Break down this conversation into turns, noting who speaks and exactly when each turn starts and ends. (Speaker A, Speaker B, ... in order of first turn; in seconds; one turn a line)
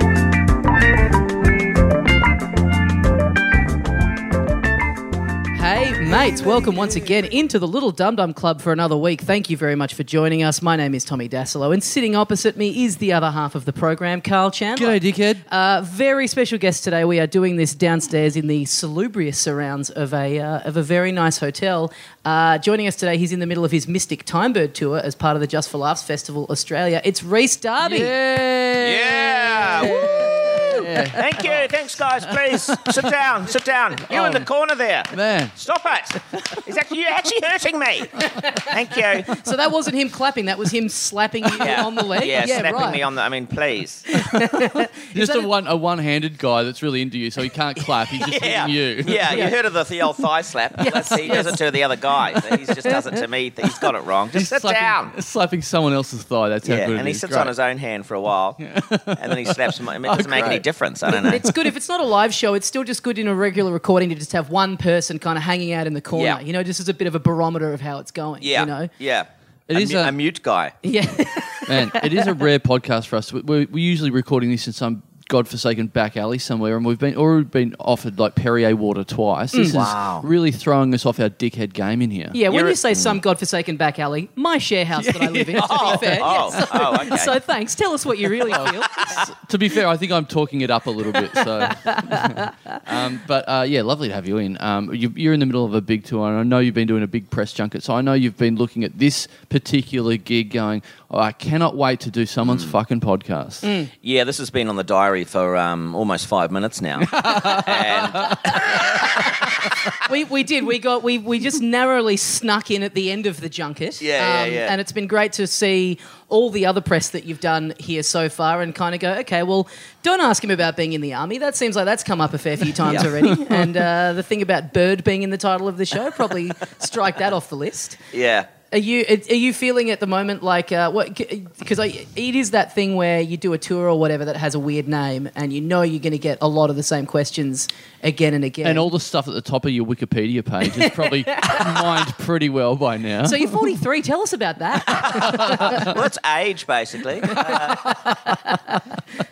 Speaker A: 5.5-28.1
Speaker B: 14.8-15.4
Speaker B: 27.8-31.7
Speaker C: 28.8-39.4
Speaker A: 29.8-31.4
Speaker B: 35.1-35.5
Speaker A: 38.2-43.0
Speaker C: 41.5-44.2
Speaker A: 44.1-45.5
Speaker B: 45.1-49.5
Speaker C: 48.1-55.1
Speaker A: 49.3-49.5
Speaker A: 50.8-51.6
Speaker B: 50.9-51.6
Speaker B: 52.3-52.7
Speaker B: 54.3-57.5
Speaker C: 56.6-61.5
Speaker B: 58.6-60.6
Speaker A: 61.1-68.9
Speaker B: 61.2-61.7
Speaker C: 66.1-66.4
Speaker C: 68.4-70.7
Speaker B: 69.7-70.1
Speaker A: 70.8-72.4
Speaker B: 71.7-82.4
Speaker A: 79.5-79.8
Speaker C: 79.7-80.2
Speaker A: 82.3-89.2
Speaker C: 82.5-83.2
Speaker B: 85.0-87.0
Speaker C: 85.5-87.4
Speaker B: 88.4-103.7
Speaker A: 91.6-92.8
Speaker C: 102.5-102.7
Speaker A: 103.6-103.9
Speaker C: 104.0-109.5
Speaker B: 107.0-108.8
Speaker A: 108.8-109.3
Speaker A: 110.0-128.0
Speaker C: 114.0-114.7
Speaker B: 123.2-123.7
Speaker C: 128.1-128.5
Speaker A: 128.7-138.9
Speaker B: 138.6-143.5
Speaker A: 140.7-142.0
Speaker A: 143.2-145.9
Speaker C: 145.0-147.9
Speaker B: 145.3-145.8
Speaker A: 147.2-148.8